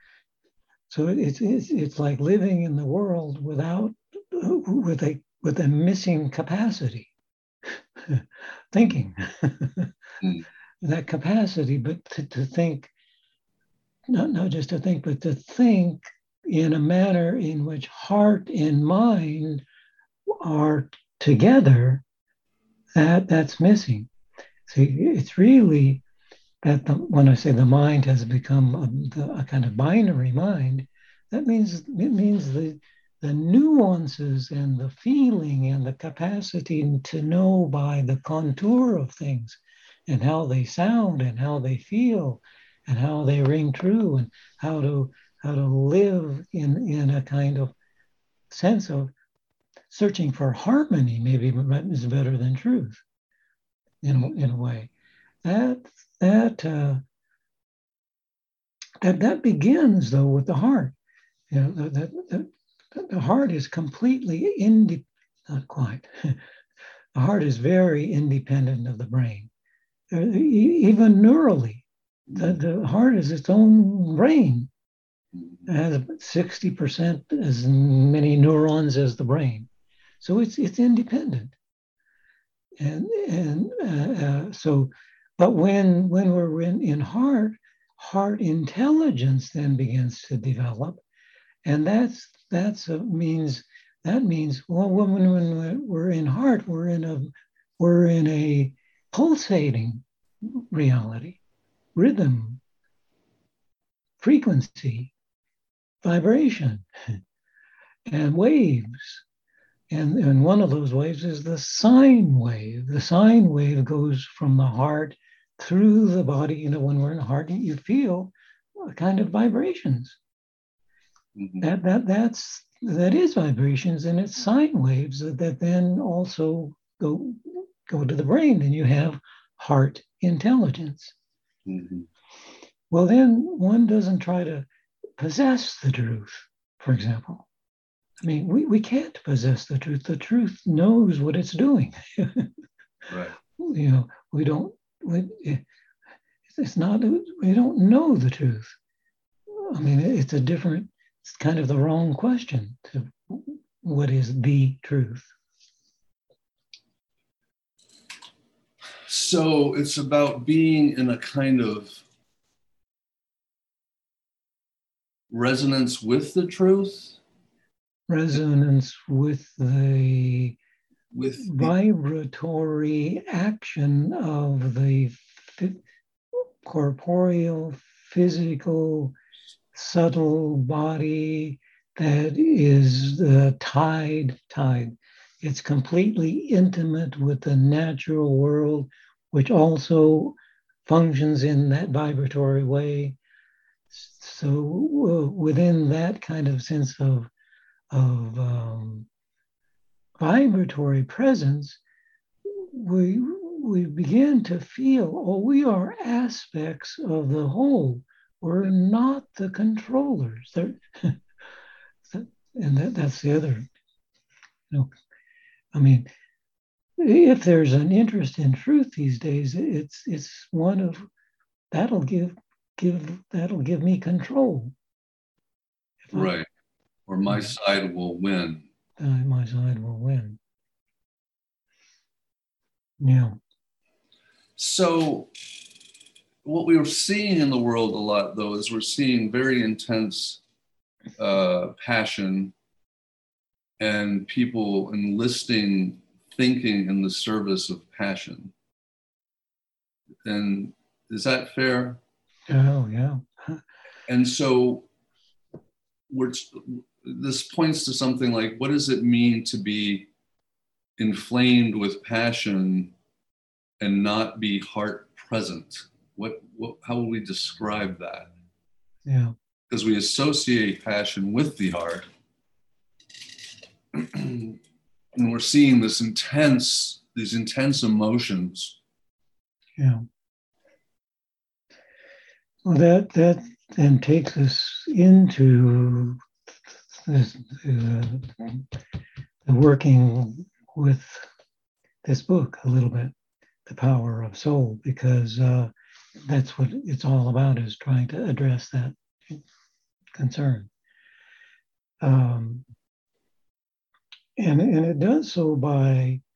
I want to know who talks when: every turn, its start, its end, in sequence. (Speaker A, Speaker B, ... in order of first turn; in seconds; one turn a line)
Speaker A: 0.9-7.1
Speaker A: 8.0-9.9
Speaker A: 10.8-12.9
Speaker A: 14.1-19.6
Speaker A: 20.3-22.0
Speaker A: 22.9-24.1
Speaker A: 24.7-26.0
Speaker A: 26.6-47.7
Speaker A: 48.5-49.1
Speaker A: 49.9-53.0
Speaker A: 54.0-54.9
Speaker A: 55.4-57.0
Speaker A: 59.0-60.9
Speaker A: 61.5-66.4
Speaker A: 67.1-69.5
Speaker A: 70.1-74.7
Speaker B: 72.3-72.6
Speaker B: 75.3-75.7
Speaker A: 75.7-79.7
Speaker A: 80.2-81.5
Speaker A: 82.8-91.0
Speaker A: 91.6-101.4
Speaker A: 101.9-102.6
Speaker A: 104.2-105.1
Speaker A: 106.0-106.9
Speaker A: 108.1-109.2
Speaker A: 109.9-120.2
Speaker B: 121.3-121.7
Speaker A: 121.6-131.1
Speaker B: 131.6-132.1
Speaker A: 132.9-134.7
Speaker A: 135.2-137.5
Speaker A: 138.2-142.5
Speaker B: 143.1-143.3
Speaker A: 143.6-145.6
Speaker A: 146.5-148.7
Speaker A: 149.5-155.3
Speaker B: 159.0-162.0
Speaker B: 165.3-167.2
Speaker A: 168.1-170.6
Speaker B: 171.1-171.7
Speaker A: 171.4-175.8
Speaker A: 176.3-179.1
Speaker A: 179.7-193.2
Speaker A: 193.9-197.3
Speaker A: 197.9-199.1
Speaker A: 200.2-201.8
Speaker A: 202.5-211.2
Speaker A: 212.1-213.7
Speaker A: 215.7-216.1
Speaker A: 217.0-221.1
Speaker A: 221.7-224.7
Speaker A: 226.1-226.3
Speaker B: 226.1-226.5
Speaker B: 227.1-228.6
Speaker A: 229.0-230.4
Speaker A: 233.0-233.4
Speaker B: 234.6-235.3
Speaker B: 236.4-240.4
Speaker B: 241.2-242.5
Speaker B: 243.8-248.5
Speaker B: 250.2-252.0
Speaker A: 252.5-253.6
Speaker B: 254.1-254.9
Speaker B: 256.1-260.1
Speaker B: 261.0-262.9
Speaker B: 263.8-268.3
Speaker A: 269.1-269.3
Speaker B: 269.7-272.1
Speaker B: 273.9-274.6
Speaker B: 275.1-278.8
Speaker A: 279.8-280.0
Speaker A: 282.6-286.2
Speaker A: 286.9-288.6
Speaker A: 289.4-291.3
Speaker A: 292.0-293.1
Speaker A: 293.6-299.4
Speaker A: 300.1-300.7
Speaker A: 302.0-302.6
Speaker A: 304.4-306.2